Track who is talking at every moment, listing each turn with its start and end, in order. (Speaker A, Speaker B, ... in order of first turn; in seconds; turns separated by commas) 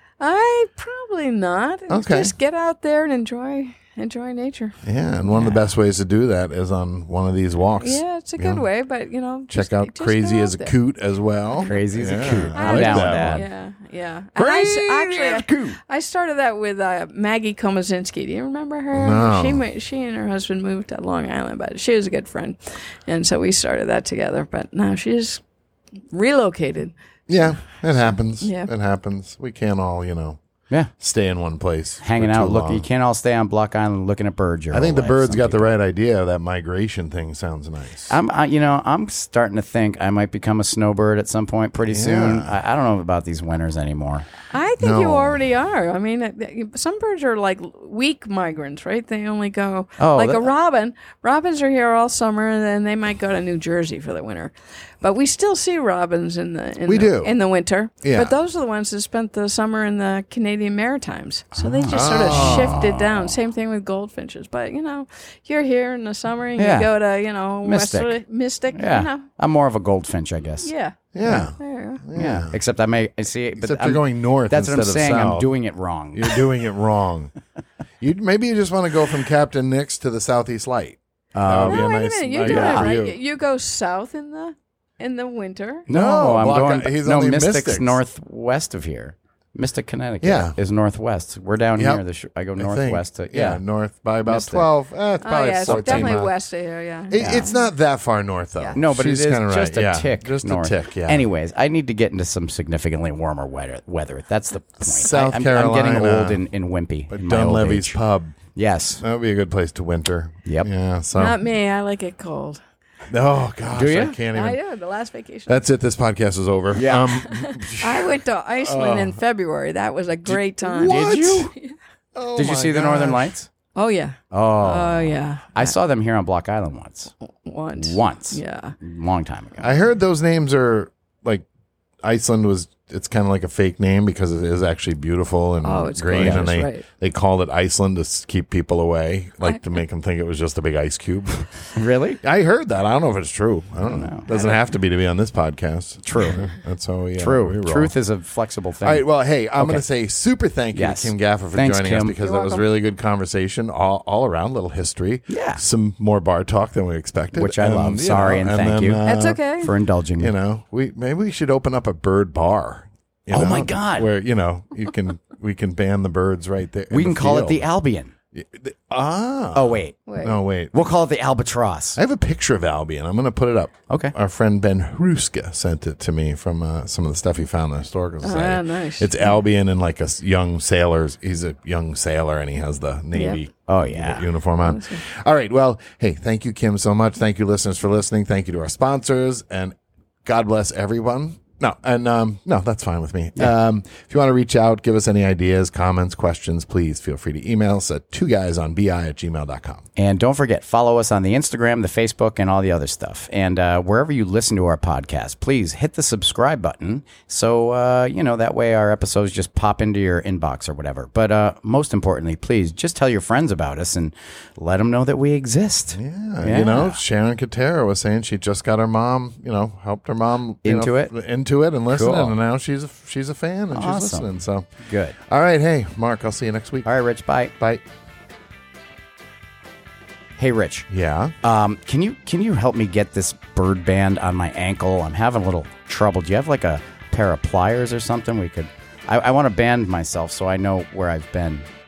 Speaker A: 0.2-4.8, Speaker B: 1.9-2.3, Speaker B: 4.8-8.6, Speaker A: 7.8-10.7, Speaker B: 9.5-13.4, Speaker C: 11.6-13.4, Speaker A: 12.5-25.4, Speaker B: 14.4-15.8, Speaker B: 18.9-19.6, Speaker A: 26.1-26.9, Speaker B: 27.3-30.4, Speaker A: 28.4-28.7, Speaker B: 31.0-32.8, Speaker C: 32.0-35.7, Speaker B: 34.7-38.2, Speaker C: 38.1-44.3, Speaker B: 41.9-42.5, Speaker A: 44.5-69.3, Speaker B: 44.8-45.4, Speaker C: 50.0-50.5, Speaker B: 56.9-57.4, Speaker B: 58.0-58.3, Speaker C: 61.5-63.3, Speaker B: 61.9-62.9, Speaker C: 66.6-66.9, Speaker C: 67.6-68.2, Speaker C: 68.7-70.7, Speaker A: 70.6-72.0, Speaker B: 71.1-72.6, Speaker C: 72.1-76.5, Speaker B: 73.6-75.5, Speaker B: 76.1-77.3, Speaker B: 78.0-83.2, Speaker C: 81.3-82.9, Speaker A: 81.5-85.8, Speaker C: 85.9-93.6, Speaker B: 85.9-88.0, Speaker B: 90.2-90.5, Speaker B: 91.8-92.0, Speaker B: 92.6-96.3, Speaker C: 94.2-94.7, Speaker A: 95.2-97.7, Speaker C: 95.7-96.2, Speaker B: 97.1-101.3, Speaker C: 97.2-97.5, Speaker C: 98.8-108.0, Speaker B: 104.8-106.4, Speaker B: 107.1-108.4, Speaker C: 108.5-109.0, Speaker B: 109.0-111.4, Speaker A: 111.1-112.6, Speaker B: 113.1-114.6, Speaker C: 113.7-114.2, Speaker A: 114.2-115.6, Speaker B: 115.5-119.2, Speaker C: 116.7-117.2, Speaker A: 117.2-121.7, Speaker B: 120.3-121.5, Speaker C: 120.8-121.5, Speaker B: 122.1-123.3, Speaker C: 122.3-123.5, Speaker A: 123.7-125.7, Speaker C: 124.3-127.1, Speaker A: 127.4-128.7, Speaker C: 127.8-129.7, Speaker B: 129.6-131.4, Speaker B: 132.0-141.7, Speaker A: 135.6-136.8, Speaker C: 136.2-136.4, Speaker C: 141.7-142.2, Speaker B: 142.2-147.9, Speaker C: 143.9-144.2, Speaker A: 144.3-144.6, Speaker C: 146.0-146.5, Speaker C: 147.2-149.8, Speaker B: 148.8-159.4, Speaker C: 150.7-152.2, Speaker A: 152.2-152.6, Speaker C: 155.3-155.6, Speaker C: 157.3-159.0, Speaker A: 159.0-159.7, Speaker C: 159.6-160.3, Speaker B: 160.2-167.6, Speaker C: 163.3-164.1, Speaker C: 166.9-168.1, Speaker B: 168.3-170.7, Speaker C: 169.5-170.0, Speaker A: 170.1-170.4, Speaker C: 170.7-172.0, Speaker B: 171.9-199.8, Speaker C: 173.9-174.1, Speaker A: 178.2-179.4, Speaker A: 183.1-183.4, Speaker C: 183.7-184.2, Speaker A: 184.6-185.0, Speaker C: 199.9-217.0, Speaker B: 215.9-224.7, Speaker C: 220.6-221.1, Speaker C: 221.9-222.3, Speaker C: 223.7-224.3, Speaker C: 224.8-225.2, Speaker B: 225.2-226.9, Speaker C: 226.8-227.5, Speaker C: 230.4-230.9, Speaker B: 230.9-231.3, Speaker C: 231.4-241.6